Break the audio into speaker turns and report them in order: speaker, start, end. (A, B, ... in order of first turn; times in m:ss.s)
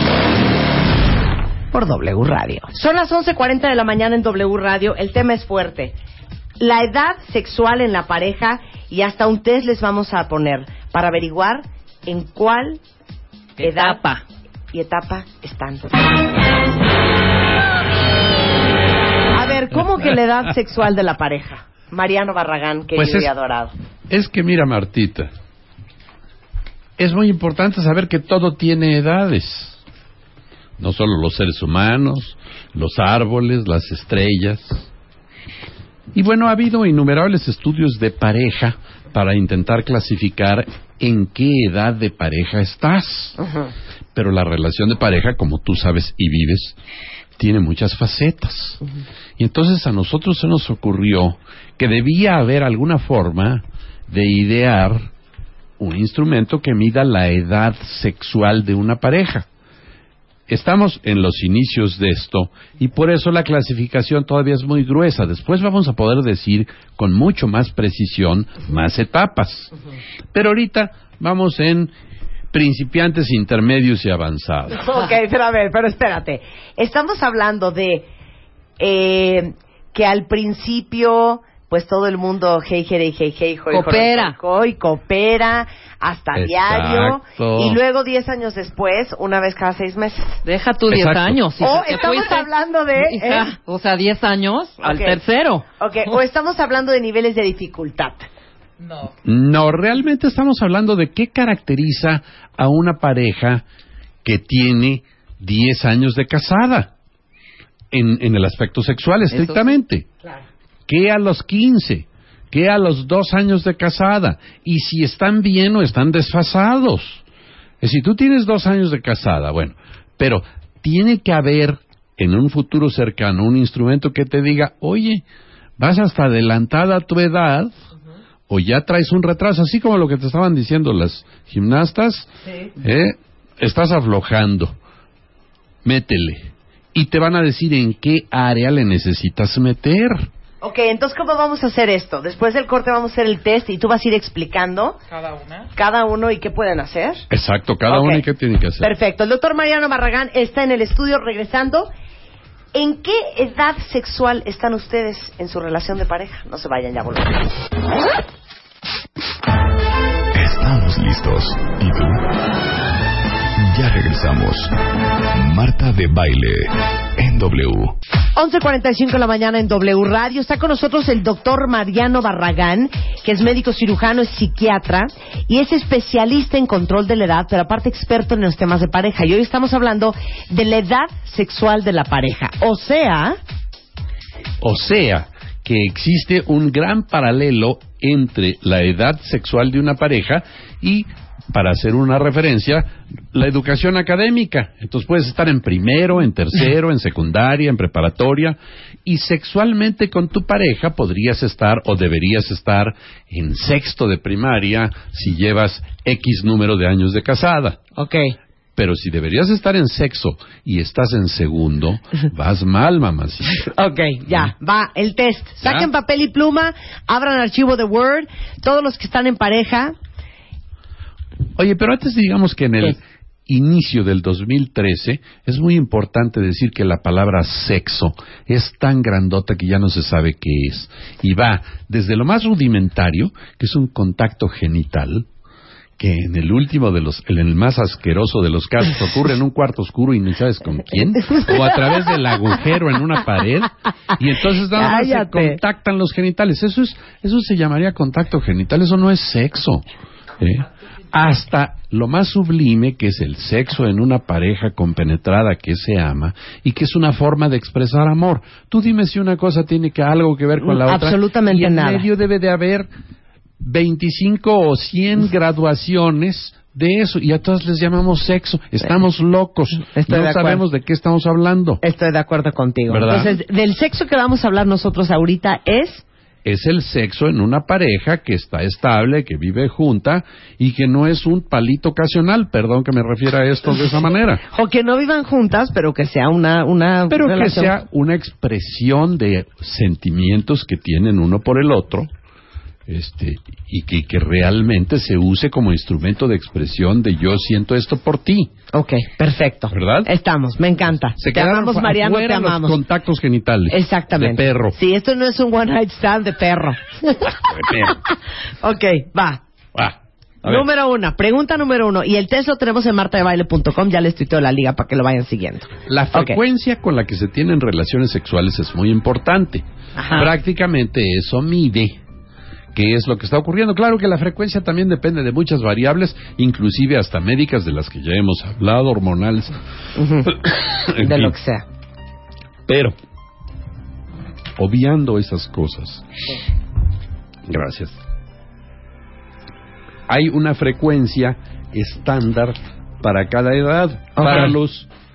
0:01.7-0:06.0 A
0:06.6-0:12.8 A
0:13.6-0:14.2 B
0:13.6-0:14.0 A
0:14.7-0:16.1 A
0:19.3-0:23.7 A
0:23.0-0:23.3 C
0:24.1-0:25.3 C
0:27.0-0:29.8 C
0:30.8-0:34.9 C
0:36.1-0:43.4 C
0:44.1-0:46.8 C
0:47.4-0:48.8 C
0:49.4-0:55.1 C
0:55.8-0:59.4 C
1:00.5-1:09.7 C
1:10.3-1:11.9 C
1:12.5-1:14.9 C
1:14.7-1:18.1 A
1:18.8-1:30.4 A
1:23.7-1:24.4 B
1:26.3-1:27.8 C
1:30.4-1:35.6 B
1:30.9-1:31.4 C
1:31.6-1:33.5 A
1:34.8-1:35.2 A
1:35.8-1:38.2 A
1:39.2-1:43.6 C
1:44.2-1:46.9 C
1:47.9-1:50.1 C
1:49.3-1:49.7 B
1:50.9-1:57.2 C
1:57.8-2:05.2 C
2:05.8-2:07.7 C
2:08.5-2:14.7 C
2:15.8-2:20.3 C
2:20.6-2:25.0 A
2:25.6-2:27.2 A
2:27.3-2:28.9 C
2:27.9-2:28.2 A
2:28.8-2:31.9 A
2:32.7-2:37.5 A
2:40.3-2:42.3 D
2:43.6-2:48.0 D
2:48.3-3:03.4 A
3:04.6-3:27.8 C
3:28.0-3:28.3 A
3:28.8-3:33.7 C
3:33.6-3:39.9 A
3:34.2-3:34.5 C
3:35.6-3:35.9 C
3:41.6-3:55.3 C
3:56.0-4:09.8 C
4:01.2-4:01.9 A
4:04.7-4:05.6 A
4:10.4-4:22.9 C
4:20.6-4:22.1 A
4:23.6-4:31.8 C
4:29.9-4:30.6 A
4:31.8-4:36.0 A
4:32.9-4:33.4 C
4:36.4-4:44.4 C
4:44.5-4:47.7 A
4:47.1-4:52.1 C
4:52.9-4:58.5 C
4:58.7-5:02.8 A
4:59.7-5:00.1 C
5:01.1-5:04.8 C
5:03.7-5:07.4 A
5:07.4-5:08.0 C
5:08.6-5:09.4 A
5:09.7-5:10.6 C
5:10.4-5:16.4 A
5:15.9-5:22.0 C
5:20.0-5:20.3 A
5:22.7-5:29.6 C
5:30.0-5:30.4 A
5:30.2-5:31.3 C
5:30.9-5:31.6 A
5:32.7-5:33.0 C
5:34.6-5:36.0 C
5:37.5-5:38.0 C
5:40.1-5:44.9 C
5:44.2-5:44.5 A